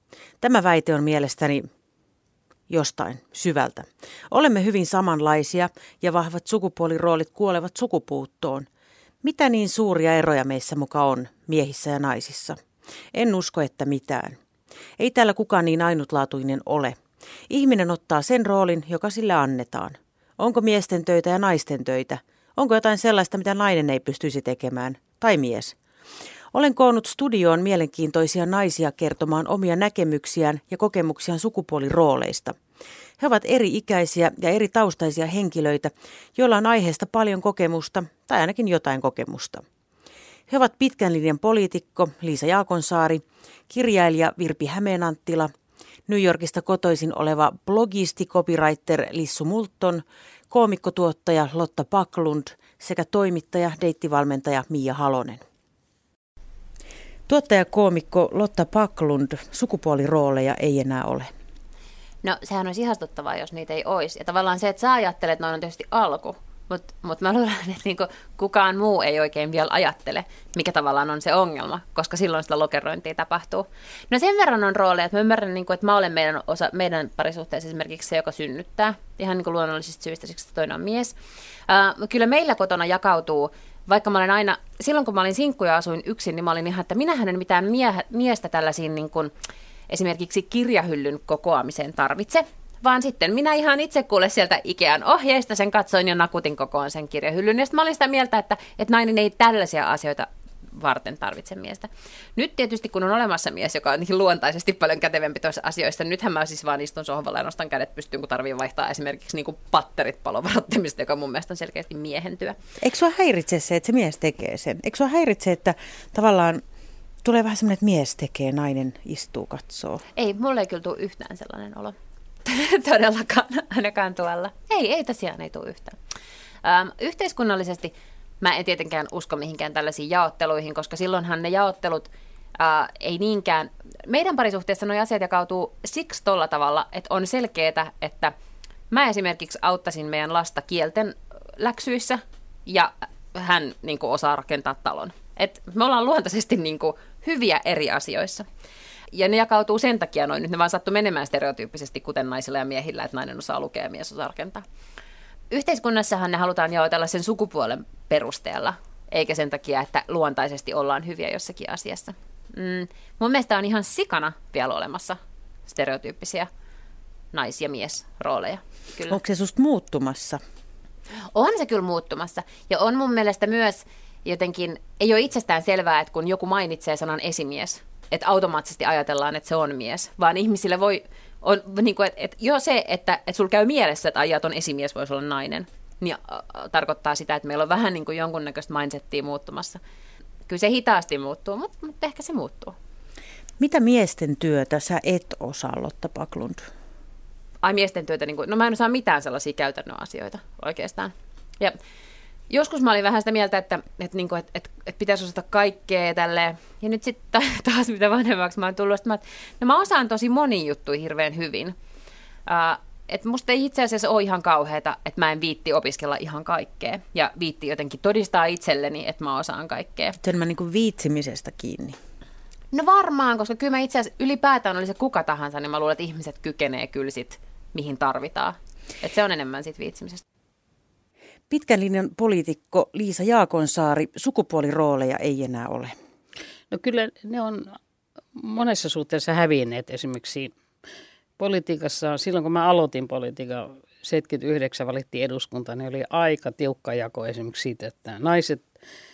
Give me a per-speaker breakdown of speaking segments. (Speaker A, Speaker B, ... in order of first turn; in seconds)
Speaker A: 0.4-1.7, 2.7-8.7, 9.2-12.6, 13.1-14.4, 15.0-25.8, 26.5-32.6, 33.2-39.6, 40.5-45.5, 46.1-55.4, 57.3-61.3, 112.8-116.6, 117.2-120.0, 169.1-170.4, 193.6-196.6, 220.2-222.0, 231.5-235.9
Speaker B: 62.2-81.1, 81.7-89.3, 89.9-112.6, 120.2-126.0, 126.6-138.3, 138.9-148.5, 149.1-154.6, 155.5-166.5, 167.3-169.2, 171.3-189.8, 190.5-192.8, 197.6-201.8, 202.5-211.8, 212.5-220.2, 222.7-230.2
Speaker C: 236.7-237.8, 238.4-240.5, 241.4-248.7